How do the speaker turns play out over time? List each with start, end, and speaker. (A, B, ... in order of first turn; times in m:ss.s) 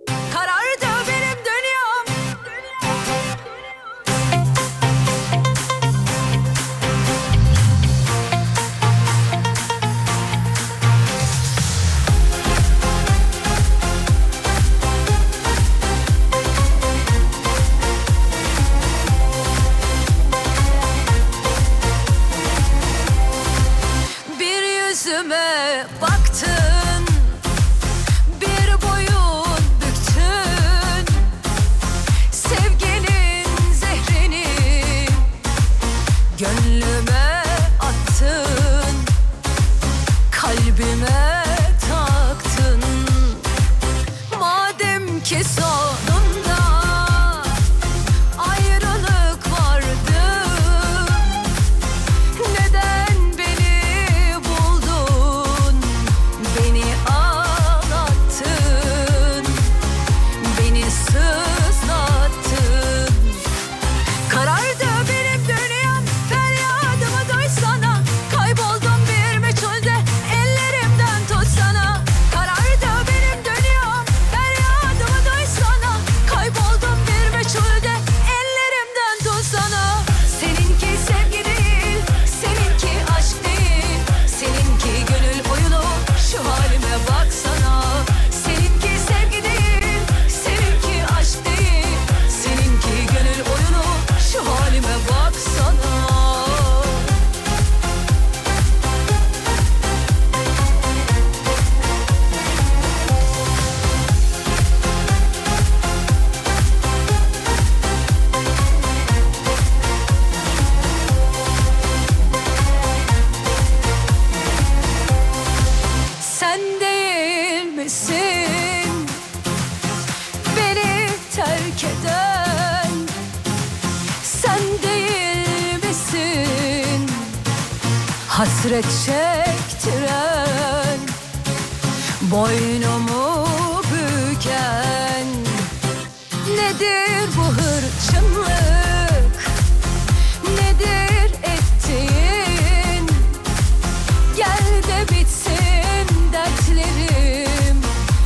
0:00.3-0:02.2 A
0:24.3-0:27.4 A
0:28.3-0:31.3 A
0:32.3-0:35.3 A
0:36.3-0:39.1 A
0:40.3-0:43.4 A
0:44.3-0:47.6 A
0:48.4-0:51.3 A
0:52.4-0:59.7 A
1:00.4-1:03.4 A
1:04.3-1:37.2 A
1:56.2-1:59.2 A
2:00.5-2:03.1 A
2:04.2-2:07.4 A
2:08.3-2:11.2 A
2:12.2-2:15.7 A
2:16.4-2:19.5 A
2:20.4-2:23.4 A
2:24.3-2:27.9 A